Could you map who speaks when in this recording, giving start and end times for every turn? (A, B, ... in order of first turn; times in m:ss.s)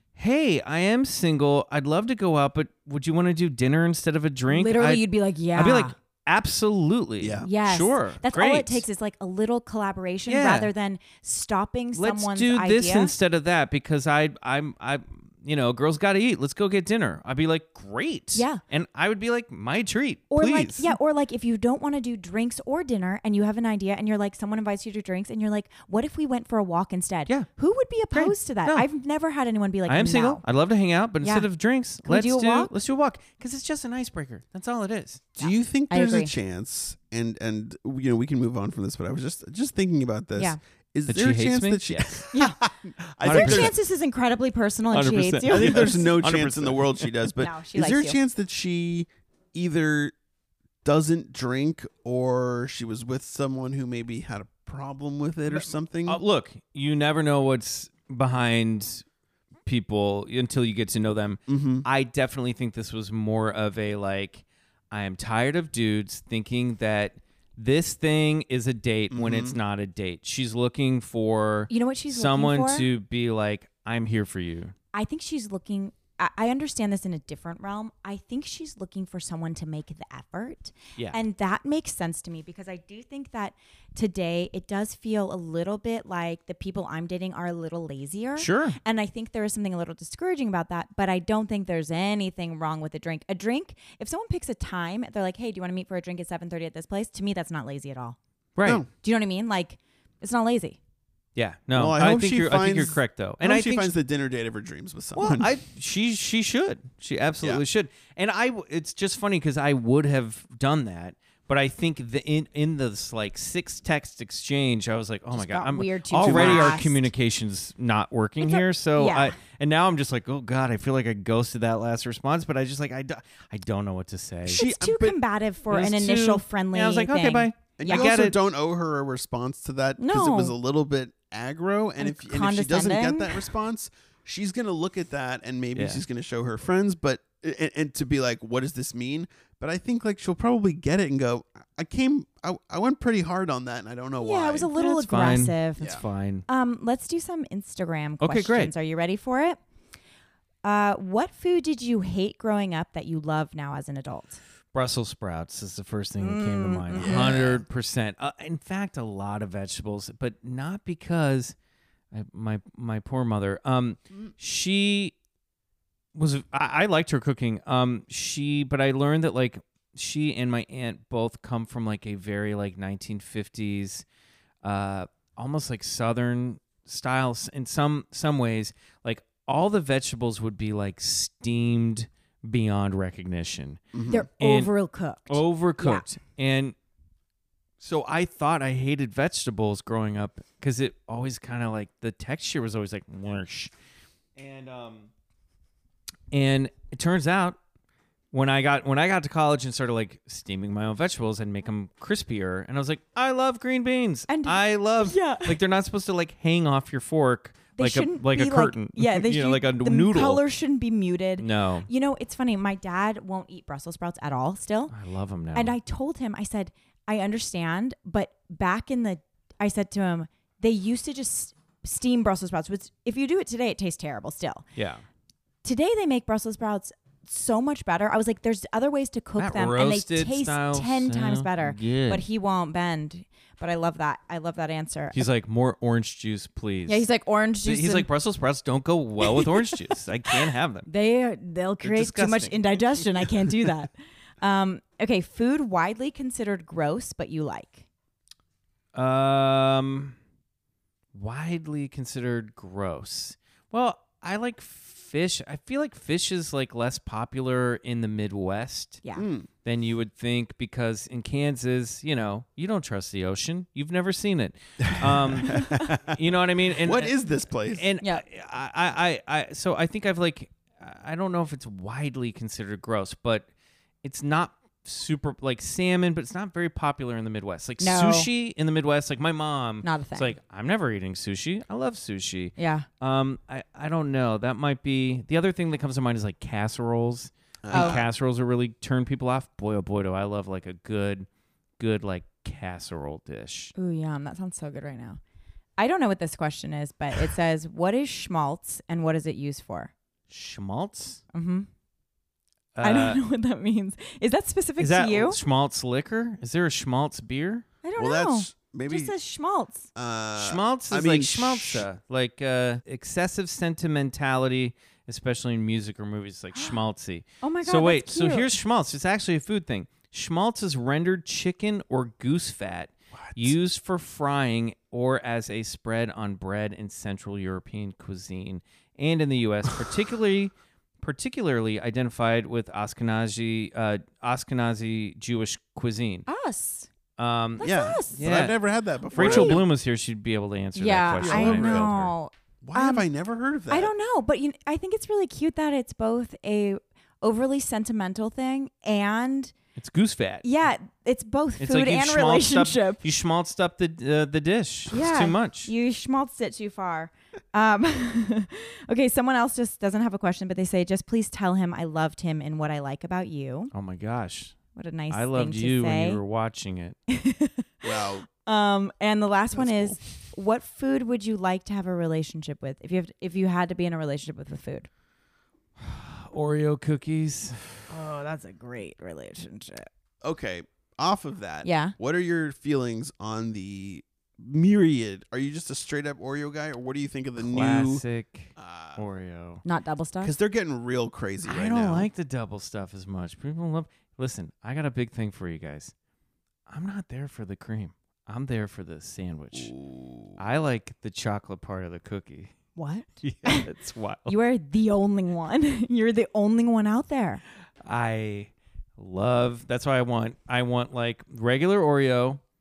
0:00.2-0:08.8 A
0:04.5-0:05.9 B
0:07.2-0:07.5 C
0:07.4-0:13.1 B
0:10.3-0:10.7 A
0:12.0-0:21.0 A
0:18.3-0:18.6 B
0:20.3-0:30.4 B
0:28.1-0:28.8 A
0:29.9-0:35.3 A
0:31.2-0:31.5 B
0:32.0-0:32.7 B
0:35.4-0:43.7 C
0:35.4-0:36.3 B
0:41.1-0:42.2 A
0:42.3-0:42.6 B
0:43.2-0:43.8 A
0:43.2-0:46.2 B
0:44.9-0:47.1 A
0:45.5-0:50.1 C
0:47.4-0:48.2 B
0:50.8-0:56.2 C
0:55.5-0:59.0 A
0:59.6-1:14.7 A
1:01.5-1:01.8 C
1:09.1-1:09.6 C
1:11.7-1:12.9 B
1:14.9-1:38.2 B
1:28.4-1:28.8 A
1:38.6-1:38.8 A
1:39.0-1:40.8 B
1:41.3-1:43.9 A
1:41.7-1:45.5 C
1:45.2-2:04.6 A
1:55.3-1:57.0 B
1:56.2-1:56.8 C
1:58.4-1:59.3 B
2:04.5-2:05.2 C
2:04.5-2:08.1 B
2:05.7-2:08.4 A
2:07.8-2:24.7 C
2:10.0-2:10.5 B
2:12.0-2:13.4 B
2:15.7-2:16.0 A
2:24.2-2:26.0 B
2:24.7-2:26.4 A
2:26.5-2:29.6 B
2:28.2-2:28.7 A
2:30.6-2:34.4 B
2:34.7-2:41.5 A
2:36.2-2:37.4 B
2:36.9-2:37.6 C
2:42.1-2:45.1 A
2:46.1-2:54.0 A
2:54.6-3:04.7 A
3:03.9-3:04.2 C
3:04.1-3:06.0 B
3:05.3-3:06.7 A
3:07.8-3:13.7 A
3:14.4-3:15.1 A
3:16.3-3:17.6 A
3:18.3-3:30.4 A
3:24.3-3:25.6 B
3:27.8-3:34.9 B
3:31.4-3:31.9 A
3:34.9-3:35.8 A
3:35.5-3:44.6 B
3:44.8-3:45.0 A
3:45.6-3:55.2 B
3:49.4-3:52.2 A
3:55.1-3:57.1 A
3:56.9-3:58.1 B
3:57.6-4:00.9 A
4:00.9-4:07.8 B
4:01.8-4:03.3 A
4:08.9-4:10.2 A
4:11.1-4:19.0 A
4:19.1-4:19.5 C
4:19.6-4:27.1 A
4:24.9-4:26.2 C
4:26.8-4:27.9 C
4:27.7-4:33.5 A
4:34.0-4:51.3 A
4:37.8-4:38.3 B
4:39.8-4:40.3 B
4:42.6-4:42.8 B
4:47.6-4:48.0 C
4:47.7-4:48.0 B
4:51.8-4:53.7 A
4:53.7-4:55.2 B
4:55.8-4:59.9 B
5:00.3-5:01.2 A
5:01.3-5:01.7 B
5:02.7-5:03.2 A
5:02.8-5:05.4 B
5:04.8-5:07.6 A
5:07.8-5:09.9 B
5:08.0-5:09.1 C
5:09.9-5:11.9 C
5:10.4-5:36.3 A
5:17.4-5:18.5 B
5:23.2-5:23.5 C
5:36.3-5:36.9 B
5:37.2-5:38.6 A
5:37.6-5:38.2 B
5:37.6-5:39.6 C
5:39.1-5:39.6 B
5:39.1-5:42.1 A
5:40.8-5:43.1 B
5:41.2-5:42.1 C
5:42.6-5:43.9 C
5:43.7-5:49.5 B
5:49.8-5:50.4 A
5:50.4-5:53.0 B
5:51.6-5:55.7 A
5:54.9-6:03.7 B
6:03.7-6:04.6 A
6:04.7-6:06.2 B
6:05.1-6:07.0 A
6:07.1-6:14.9 B
6:07.8-6:08.2 C
6:09.5-6:10.0 C
6:15.8-6:17.6 A
6:17.9-6:19.9 B
6:20.2-6:28.0 C
6:21.6-6:21.9 B
6:27.4-6:29.6 A
6:28.6-6:29.0 C
6:29.6-6:30.3 B
6:30.2-6:32.1 C
6:31.4-6:35.9 A
6:36.7-6:39.7 A
6:39.5-6:40.4 C
6:40.4-6:42.5 A
6:42.8-6:43.7 B
6:43.2-6:44.3 A
6:44.3-6:47.4 B
6:47.8-6:52.4 A